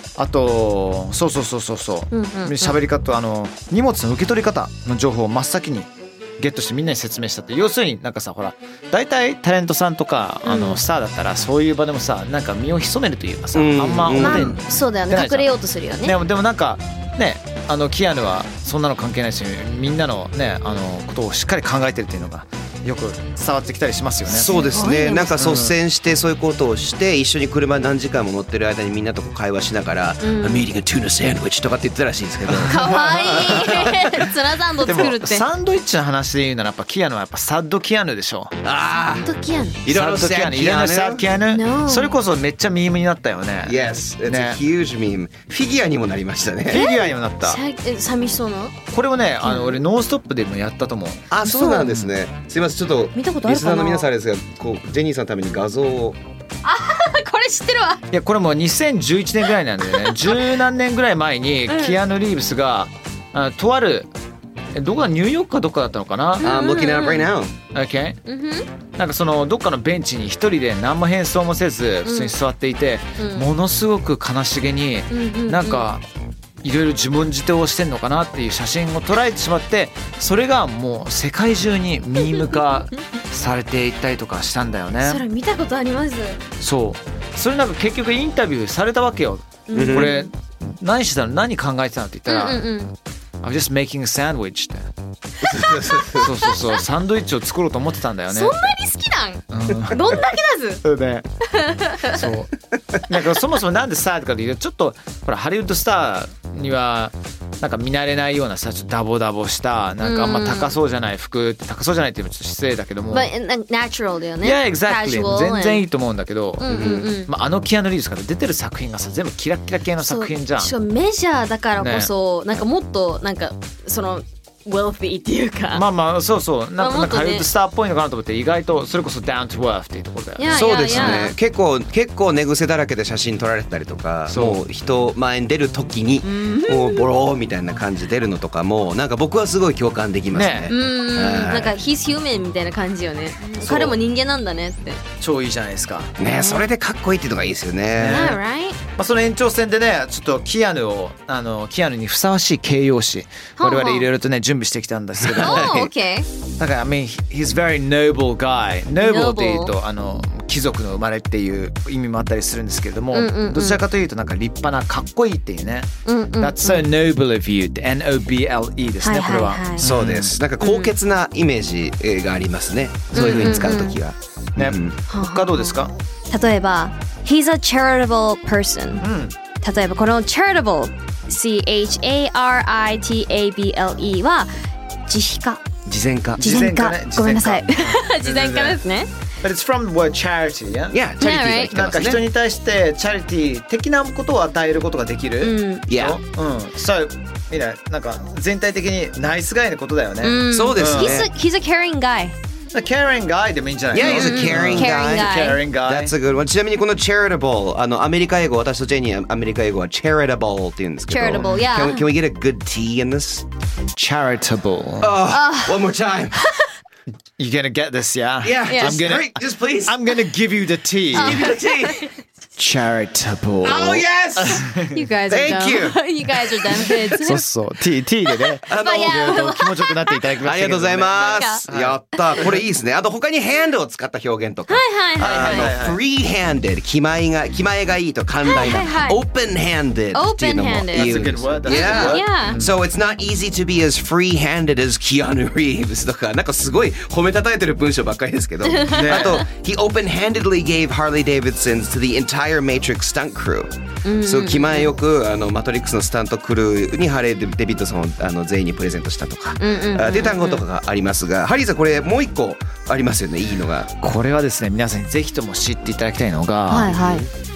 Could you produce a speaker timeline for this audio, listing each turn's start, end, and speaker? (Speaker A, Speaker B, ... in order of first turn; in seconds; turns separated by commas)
Speaker A: 0.2-24.5, Speaker B: 2.1-2.8, Speaker B: 10.4-10.8, Speaker C: 13.5-14.6, Speaker B: 14.1-16.1, Speaker B: 24.3-25.6, Speaker C: 24.3-32.8, Speaker A: 25.4-25.7, Speaker B: 30.2-30.7, Speaker A: 32.5-34.2, Speaker B: 32.6-35.4, Speaker C: 33.5-33.8, Speaker A: 34.8-38.5, Speaker C: 38.6-39.3, Speaker B: 38.9-39.8, Speaker C: 39.8-41.2, Speaker A: 39.9-44.6, Speaker B: 41.5-42.2, Speaker C: 43.6-46.8, Speaker A: 46.7-47.6, Speaker B: 46.7-48.7, Speaker A: 48.9-52.1, Speaker B: 49.4-49.8, Speaker C: 51.3-56.2, Speaker B: 51.4-51.8, Speaker B: 53.1-54.1, Speaker B: 56.6-58.0, Speaker A: 58.1-64.1, Speaker B: 59.9-60.5, Speaker B: 61.7-62.0, Speaker A: 64.7-66.6, Speaker B: 66.4-67.3, Speaker C: 66.4-67.5, Speaker A: 67.7-68.2, Speaker B: 68.3-68.7, Speaker A: 69.0-76.0, Speaker B: 72.0-72.3, Speaker B: 73.2-73.5, Speaker B: 75.1-75.9, Speaker A: 76.6-85.2, Speaker B: 85.0-86.4, Speaker A: 86.6-92.7, Speaker B: 89.7-90.3, Speaker C: 89.7-90.1, Speaker B: 92.2-92.9, Speaker A: 93.4-94.9, Speaker C: 95.4-96.4, Speaker B: 96.1-96.6, Speaker A: 96.1-98.8, Speaker B: 98.3-100.8, Speaker A: 99.5-101.2, Speaker B: 101.6-102.3, Speaker A: 102.1-102.5, Speaker A: 103.0-113.3, Speaker B: 110.0-110.8, Speaker B: 113.1-115.9, Speaker A: 114.4-120.7, Speaker B: 116.6-117.3, Speaker C: 116.7-117.1, Speaker B: 120.0-125.8, Speaker A: 121.8-122.6, Speaker A: 125.7-131.3, Speaker B: 126.8-127.5, Speaker B: 130.4-131.3, Speaker C: 130.5-141.8, Speaker A: 134.3-134.6, Speaker B: 136.2-137.1, Speaker A: 140.3-140.7, Speaker B: 140.7-145.0, Speaker A: 143.6-144.0, Speaker A: 145.2-146.1, Speaker C: 146.2-148.2, Speaker B: 146.2-146.7, Speaker A: 147.9-148.4, Speaker B: 148.1-148.8, Speaker A: 148.9-155.9, Speaker B: 153.6-154.1, Speaker C: 155.2-155.7, Speaker B: 155.4-156.3, Speaker A: 156.6-170.4, Speaker B: 159.0-159.7, Speaker B: 163.1-163.8, Speaker B: 166.1-166.9, Speaker B: 169.0-169.9, Speaker C: 169.8-174.9, Speaker B: 170.6-170.9, Speaker A: 173.1-173.8, Speaker B: 173.1-174.0, Speaker A: 174.6-175.9, Speaker B: 175.1-175.8, Speaker B: 176.3-179.0, Speaker A: 179.0-179.3, Speaker B: 179.6-184.5, Speaker B: 185.1-185.6, Speaker C: 185.8-186.5, Speaker A: 186.4-188.8, Speaker B: 186.4-189.1, Speaker A: 189.4-191.0, Speaker C: 190.9-192.2, Speaker B: 191.2-191.7, Speaker A: 191.7-201.2, Speaker B: 195.4-195.8, Speaker C: 195.9-196.2, Speaker B: 200.2-202.3, Speaker C: 200.5-201.3, Speaker A: 202.7-206.1, Speaker C: 203.9-213.4, Speaker B: 204.0-205.6, Speaker B: 211.1-212.1, Speaker A: 211.3-211.5, Speaker A: 213.9-215.2, Speaker C: 215.0-216.4, Speaker B: 215.3-216.6, Speaker A: 217.4-221.5, Speaker C: 218.4-220.0, Speaker B: 218.7-219.1, Speaker C: 221.1-222.0, Speaker B: 221.1-222.1, Speaker A: 222.6-225.0, Speaker C: 223.6-224.6, Speaker B: 224.7-227.5, Speaker C: 225.3-226.8, Speaker A: 226.9-232.4, Speaker B: 228.4-230.3, Speaker C: 228.7-229.4, Speaker C: 230.4-263.9, Speaker B: 231.1-231.6, Speaker B: 232.2-232.5, Speaker B: 234.7-235.7, Speaker A: 235.2-236.0, Speaker B: 238.4-239.2, Speaker B: 240.1-242.6, Speaker A: 240.9-242.7, Speaker B: 248.6-249.3, Speaker A: 248.9-249.4, Speaker B: 254.0-254.9, Speaker B: 259.6-260.6, Speaker A: 264.0-266.9, Speaker B: 266.7-267.3, Speaker C: 266.9-267.3